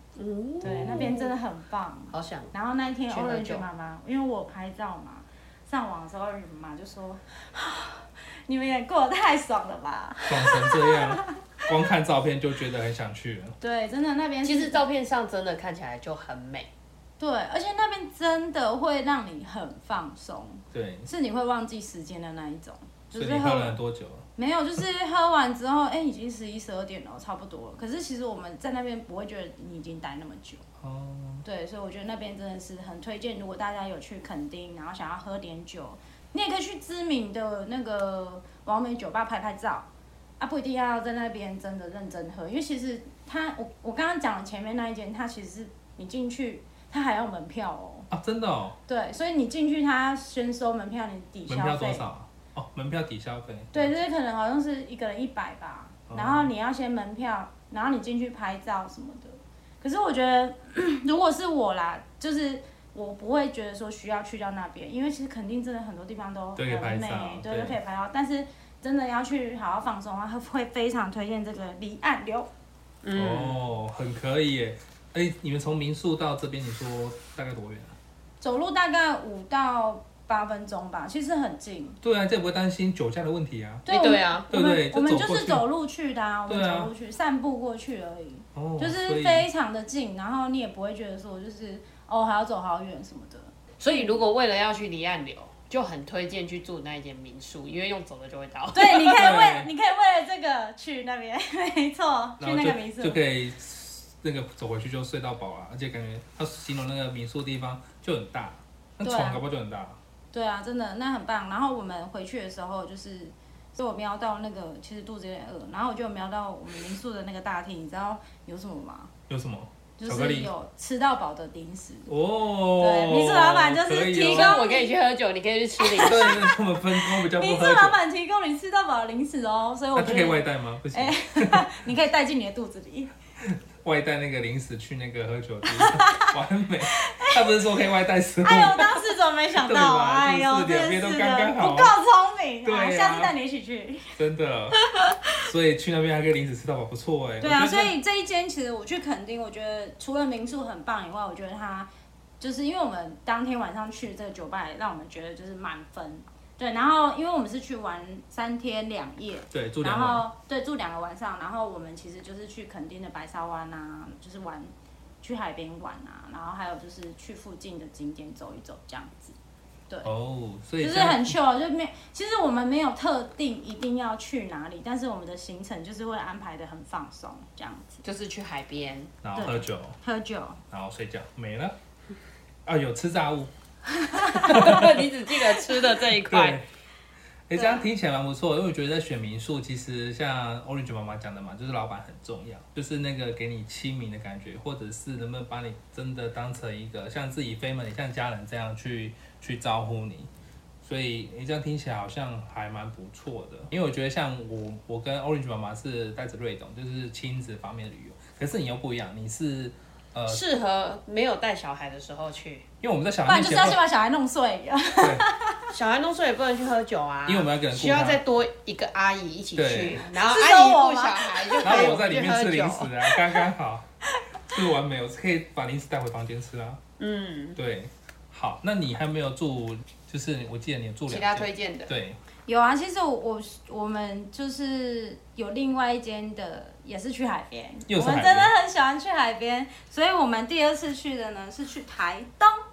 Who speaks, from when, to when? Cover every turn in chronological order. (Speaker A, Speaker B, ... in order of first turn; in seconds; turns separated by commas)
Speaker A: 0.1-1.3, Speaker B: 0.6-11.7, Speaker C: 0.6-1.1, Speaker A: 2.1-2.5, Speaker A: 3.1-3.6, Speaker C: 10.3-13.6, Speaker B: 13.6-14.8, Speaker A: 14.4-16.7, Speaker B: 17.2-23.8, Speaker C: 20.7-21.1, Speaker C: 23.1-24.2, Speaker B: 24.4-30.6, Speaker C: 30.8-31.4, Speaker B: 31.4-39.9, Speaker B: 40.4-48.1, Speaker C: 48.1-48.8, Speaker B: 48.9-52.0, Speaker C: 51.5-53.9, Speaker B: 53.7-72.5, Speaker C: 56.1-56.5, Speaker C: 66.5-67.8, Speaker A: 73.0-73.6, Speaker C: 73.1-78.0, Speaker B: 78.4-82.0, Speaker C: 82.0-83.9, Speaker B: 83.9-94.2, Speaker A: 83.9-84.5, Speaker C: 84.5-85.6, Speaker C: 86.5-86.9, Speaker C: 88.5-89.5, Speaker A: 93.8-99.4, Speaker B: 98.7-103.2, Speaker C: 99.2-99.7, Speaker C: 102.4-110.0, Speaker B: 109.0-109.4, Speaker B: 110.3-119.1, Speaker C: 119.3-120.5, Speaker B: 120.0-122.1, Speaker C: 122.1-124.6, Speaker B: 122.8-124.9, Speaker A: 124.2-126.4, Speaker B: 125.8-133.1, Speaker C: 126.0-128.0, Speaker C: 129.9-131.7, Speaker C: 133.4-138.9, Speaker B: 135.7-136.3, Speaker B: 136.9-137.4, Speaker B: 138.4-144.2, Speaker C: 139.6-141.9, Speaker C: 142.6-143.3, Speaker C: 144.2-144.8, Speaker B: 144.8-145.3, Speaker C: 145.4-147.9, Speaker B: 147.4-151.9, Speaker B: 152.4-164.7, Speaker C: 159.5-160.2, Speaker B: 165.2-169.3, Speaker C: 170.0-171.3, Speaker B: 170.8-178.0, Speaker A: 178.0-179.1, Speaker C: 179.2-180.0, Speaker B: 179.3-180.6, Speaker C: 180.7-181.7, Speaker C: 182.6-183.5, Speaker B: 184.0-184.8, Speaker C: 184.3-185.1, Speaker A: 184.4-186.6, Speaker C: 186.2-186.6, Speaker C: 187.5-200.3, Speaker B: 187.6-187.9, Speaker C: 200.8-210.4, Speaker A: 210.3-212.6, Speaker C: 212.8-213.8, Speaker B: 213.2-215.7, Speaker C: 215.0-215.2, Speaker A: 215.7-223.0, Speaker C: 217.2-218.2, Speaker C: 219.6-220.0, Speaker B: 220.2-222.0, Speaker C: 221.6-223.8, Speaker C: 224.5-226.8, Speaker A: 227.0-227.6, Speaker C: 227.6-232.2, Speaker A: 231.1-231.9, Speaker B: 232.5-242.6, Speaker C: 237.9-238.5